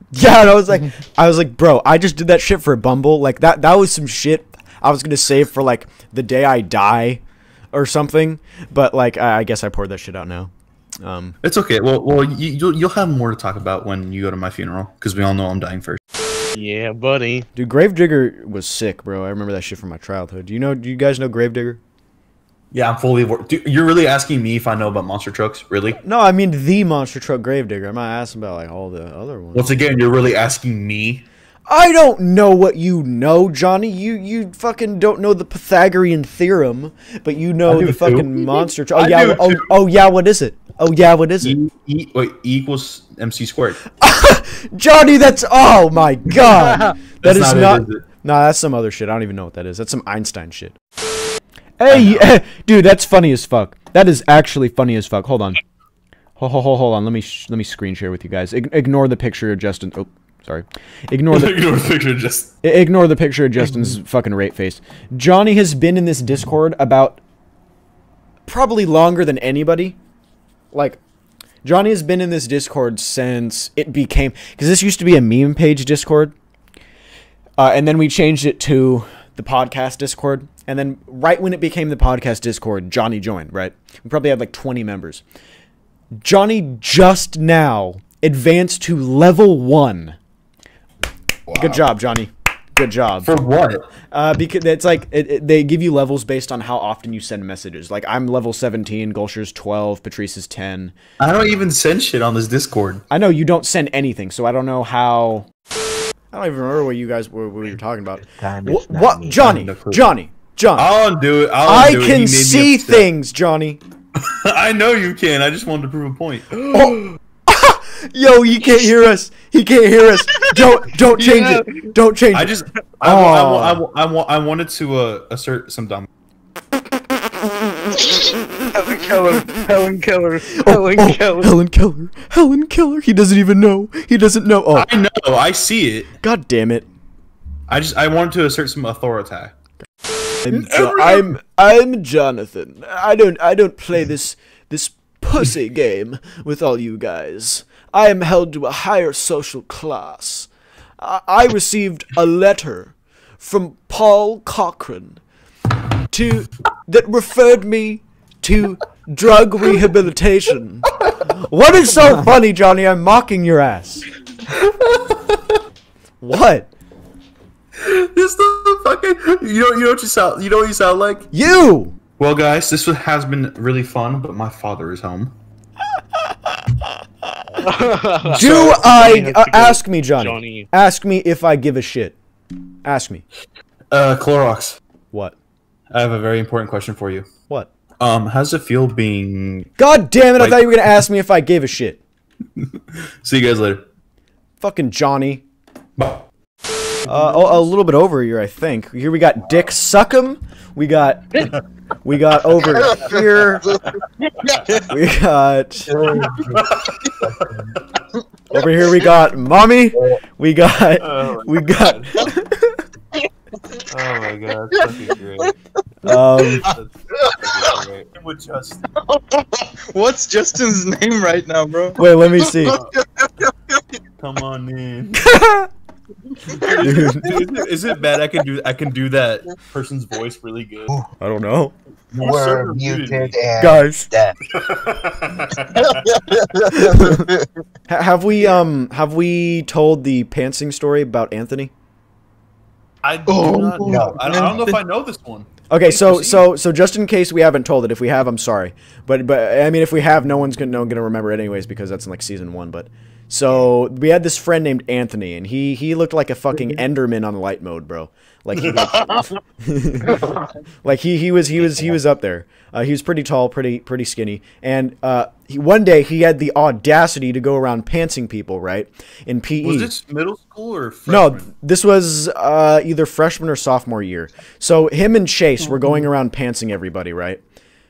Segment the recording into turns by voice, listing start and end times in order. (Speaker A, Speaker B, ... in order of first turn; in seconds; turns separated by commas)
Speaker A: 0.1-7.2, Speaker A: 7.7-10.5, Speaker A: 11.0-11.4, Speaker B: 11.4-16.0, Speaker C: 16.6-17.5, Speaker A: 17.6-21.8, Speaker B: 22.7-26.0, Speaker A: 26.0-29.7, Speaker B: 29.5-31.3, Speaker A: 31.7-41.6, Speaker B: 37.7-39.8, Speaker B: 41.4-43.8, Speaker A: 44.0-50.8, Speaker B: 47.2-48.0, Speaker A: 51.8-55.6, Speaker B: 51.9-52.3, Speaker A: 56.4-61.7, Speaker B: 61.3-62.5, Speaker A: 62.6-67.2, Speaker A: 68.5-70.0, Speaker A: 70.7-71.0, Speaker A: 71.6-76.3, Speaker A: 77.6-85.2, Speaker A: 86.2-90.2, Speaker B: 91.5-91.8, Speaker A: 91.6-93.3, Speaker B: 93.2-93.8, Speaker A: 94.1-101.0, Speaker B: 101.2-103.0, Speaker A: 103.1-105.5, Speaker A: 106.3-110.9, Speaker D: 108.3-109.6, Speaker B: 109.4-110.1, Speaker B: 110.8-113.1, Speaker A: 111.7-113.8, Speaker B: 114.3-116.5, Speaker A: 116.7-123.8, Speaker B: 122.3-126.1, Speaker C: 128.7-131.4, Speaker A: 130.5-134.9, Speaker B: 134.8-136.1, Speaker A: 136.2-136.9, Speaker B: 137.7-139.5, Speaker A: 140.5-150.5, Speaker B: 140.5-141.3, Speaker A: 151.0-155.2, Speaker A: 156.1-164.1, Speaker A: 166.2-166.7, Speaker B: 167.8-171.3, Speaker A: 171.3-171.9, Speaker B: 172.2-175.4, Speaker C: 177.6-180.7, Speaker A: 178.3-182.2, Speaker B: 178.3-179.3, Speaker A: 182.8-183.2, Speaker B: 183.9-184.8, Speaker B: 185.9-187.3, Speaker B: 188.0-189.7, Speaker A: 189.8-192.0, Speaker B: 190.4-190.9, Speaker B: 193.2-193.8, Speaker A: 194.6-195.4, Speaker B: 196.0-196.3, Speaker A: 197.1-203.7, Speaker A: 204.9-206.1, Speaker D: 206.0-206.3, Speaker B: 206.2-207.8, Speaker D: 207.3-207.5, Speaker A: 208.5-212.8, Speaker B: 211.0-212.3, Speaker B: 213.9-215.5, Speaker A: 216.1-216.7, Speaker B: 216.6-218.8, Speaker E: 219.1-222.0, Speaker A: 222.0-222.8, Speaker D: 222.6-223.3, Speaker B: 224.2-225.2, Speaker A: 225.2-225.7, Speaker B: 226.6-230.9, Speaker A: 226.8-227.4, Speaker A: 231.2-231.7, Speaker B: 232.1-233.3, Speaker D: 232.2-234.4, Speaker A: 233.6-234.1, Speaker B: 234.5-236.1, Speaker D: 235.8-237.5, Speaker A: 236.8-237.2, Speaker A: 237.9-241.7, Speaker B: 243.0-246.4, Speaker D: 243.3-244.8, Speaker A: 245.7-260.2, Speaker B: 258.6-259.2, Speaker A: 260.8-269.9, Speaker B: 269.6-271.5, Speaker A: 271.1-277.4